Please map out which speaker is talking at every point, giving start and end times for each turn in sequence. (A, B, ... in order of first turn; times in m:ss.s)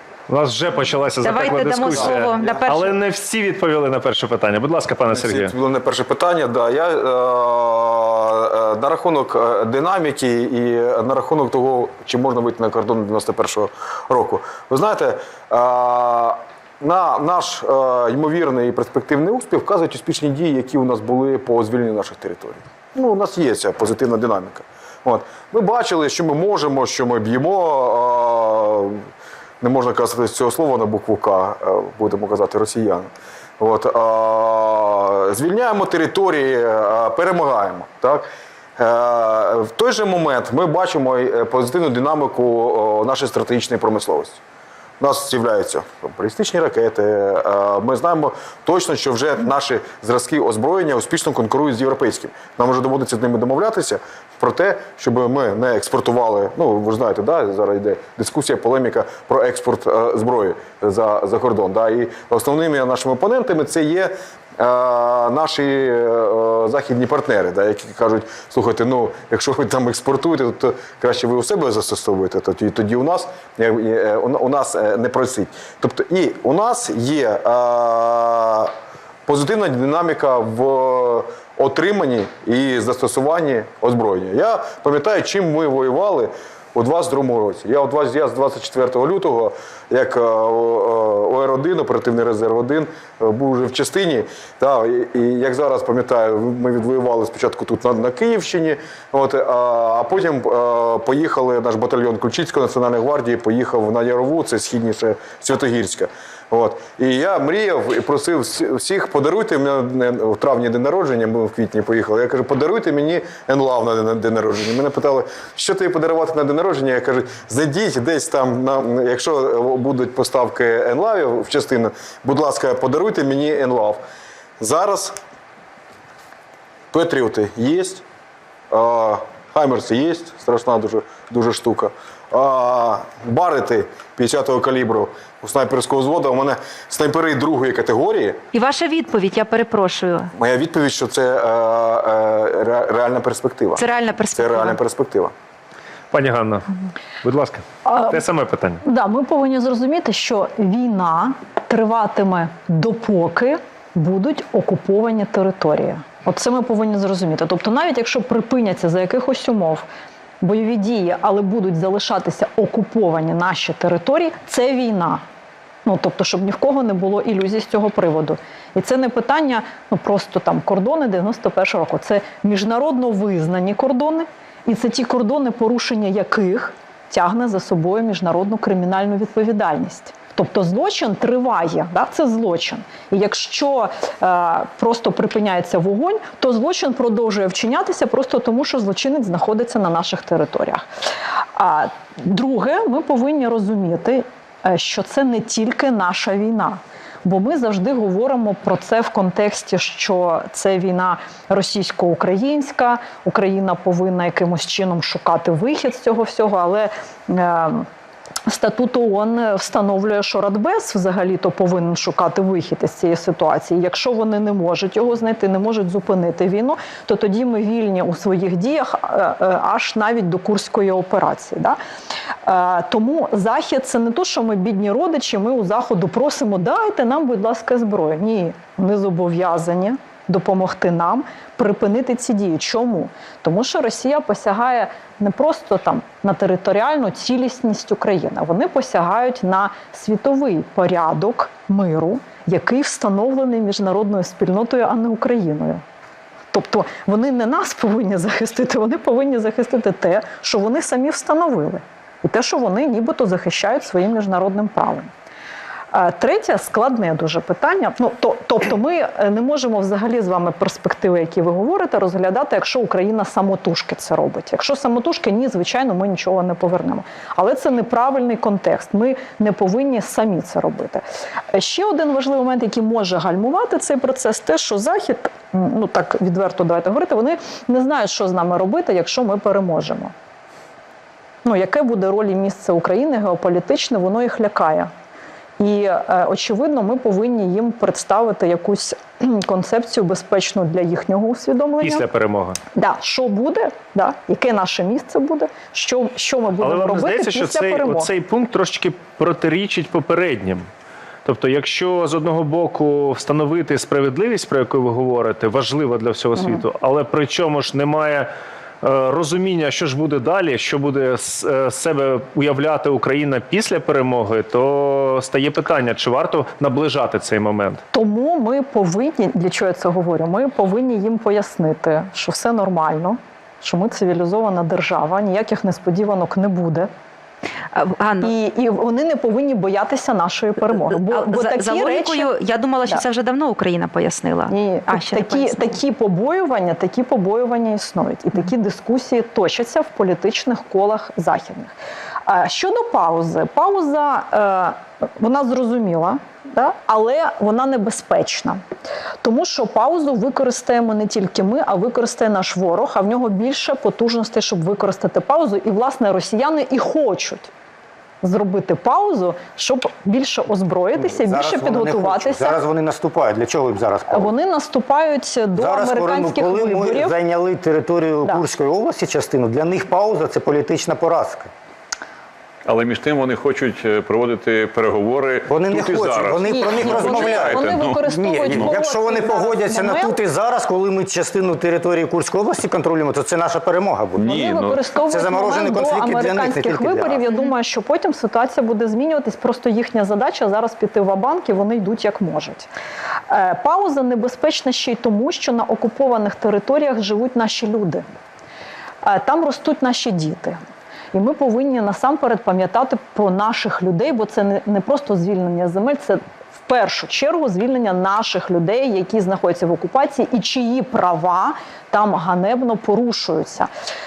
0:00.3-0:05.5 A
0:01.2-0:02.9 B
0:02.0-0:02.6 C
0:05.1-0:29.0 C
0:29.6-0:44.4 C
0:45.0-1:18.7 C
1:19.3-2:04.0 C
2:04.6-2:05.2 C
2:06.9-2:08.0 C
2:08.7-2:18.4 C
2:18.5-2:20.3 B
2:20.4-2:25.3 C
2:23.7-2:24.8 B
2:26.1-2:26.7 A
2:27.2-2:28.8 A
2:27.8-2:28.2 D
2:28.8-2:39.8 D
2:40.4-2:45.2 D
2:45.8-3:10.8 D
3:11.6-3:27.8 D
3:28.5-3:41.8 D
3:42.4-4:05.8 D
4:06.5-4:15.1 D
4:15.9-4:31.0 D
4:31.5-4:40.1 D
4:41.4-4:44.9 D
4:45.6-4:52.0 D
4:51.8-4:52.6 A
4:52.8-4:58.1 D
4:56.6-5:00.7 A
5:01.2-5:08.3 A
5:06.4-5:06.6 D
5:08.8-5:17.8 A
5:17.9-5:26.9 D
5:27.7-5:28.4 B
5:28.2-5:32.3 D
5:30.7-5:35.8 B
5:34.5-5:41.7 D
5:42.2-5:48.6 D
5:49.2-5:57.5 D
5:58.2-6:02.6 D
6:01.1-6:04.3 E
6:04.1-6:07.1 D
6:05.6-6:11.5 E
6:12.6-6:18.8 F
6:15.5-6:24.4 E
6:16.5-6:20.1 D
6:24.2-6:24.8 F
6:24.3-6:32.7 D
6:25.0-6:27.2 E
6:33.3-6:38.0 D
6:39.0-6:40.6 D
6:41.1-6:53.7 D